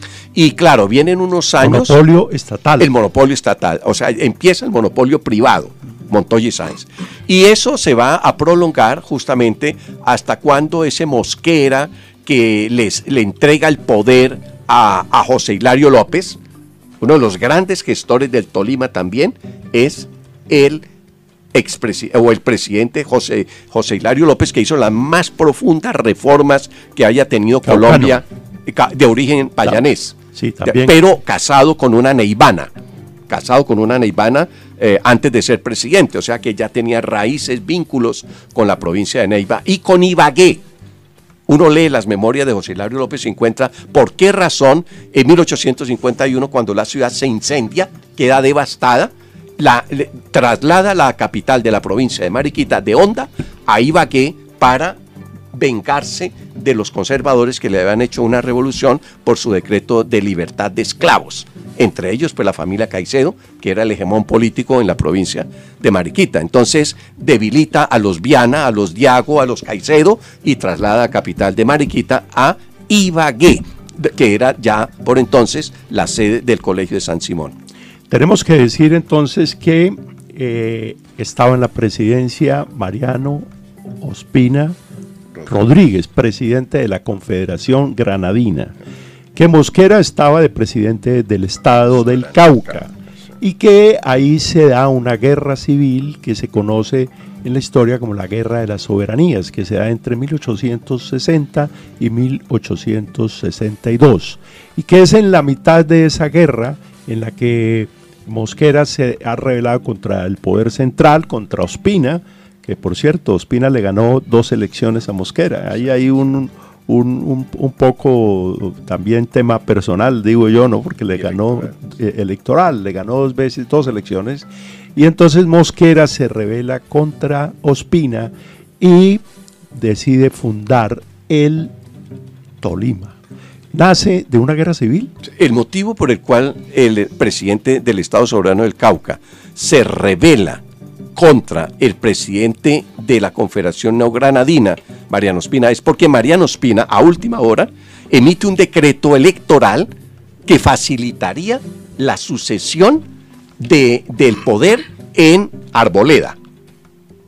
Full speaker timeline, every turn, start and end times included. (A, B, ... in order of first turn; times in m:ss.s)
0:00.3-0:02.0 A
0:01.6-0:02.9 B
0:02.8-0:16.4 A
0:17.0-0:20.8 A
0:21.5-0:32.7 A
0:27.7-0:28.2 B
0:29.6-0:31.0 B
0:33.3-0:40.6 A
0:41.5-0:55.0 A
0:55.5-1:17.6 A
1:18.1-1:24.8 B
1:25.5-1:28.8 B
1:29.4-2:11.7 B
1:32.1-1:32.3 A
2:12.6-2:13.2 B
2:13.7-2:15.1 B
2:15.2-2:20.6 A
2:21.2-2:29.9 A
2:30.5-2:33.0 A
2:33.6-2:36.4 A